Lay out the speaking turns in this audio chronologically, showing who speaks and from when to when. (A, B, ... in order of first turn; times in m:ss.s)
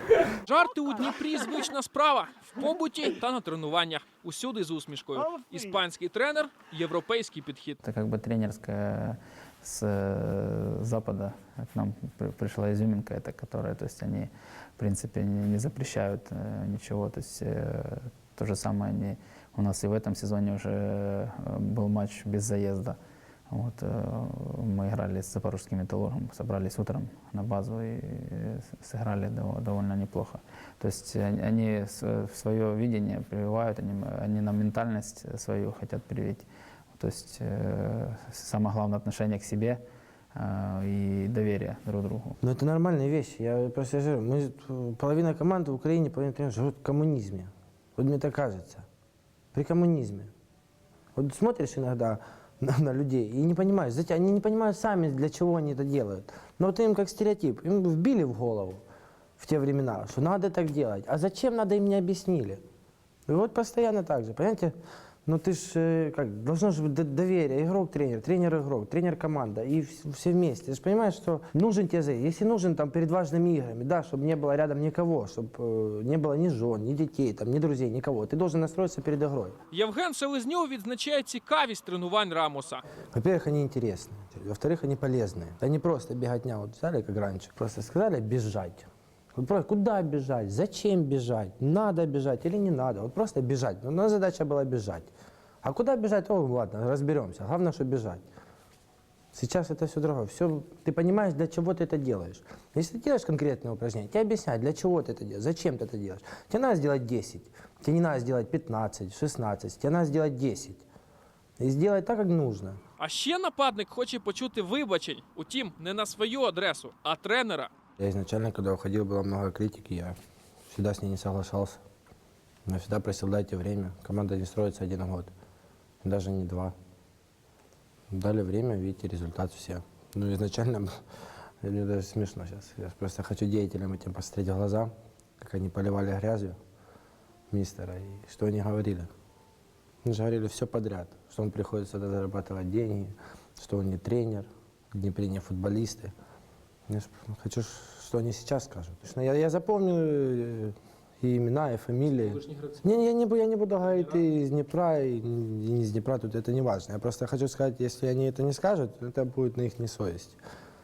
0:00.5-0:07.8 A
0:07.8-0:23.0 B
0:23.5-0:39.8 B
0:40.4-0:42.4 B
0:42.4-0:48.9 C
0:49.5-0:50.3 C
0:51.2-0:58.8 C
0:59.4-1:02.6 C
1:03.3-1:19.6 C
1:19.7-1:22.8 A
1:23.1-1:35.1 C
1:35.6-1:38.2 C
1:39.3-1:50.8 C
1:51.6-1:52.8 C
1:53.0-1:57.7 A
1:58.0-2:00.2 C
2:00.7-2:01.8 C
2:02.7-2:05.3 C
2:06.0-2:06.8 C
2:08.1-2:11.0 C
2:11.6-2:16.6 C
2:17.5-2:19.1 C
2:20.0-2:26.1 C
2:26.9-2:40.4 C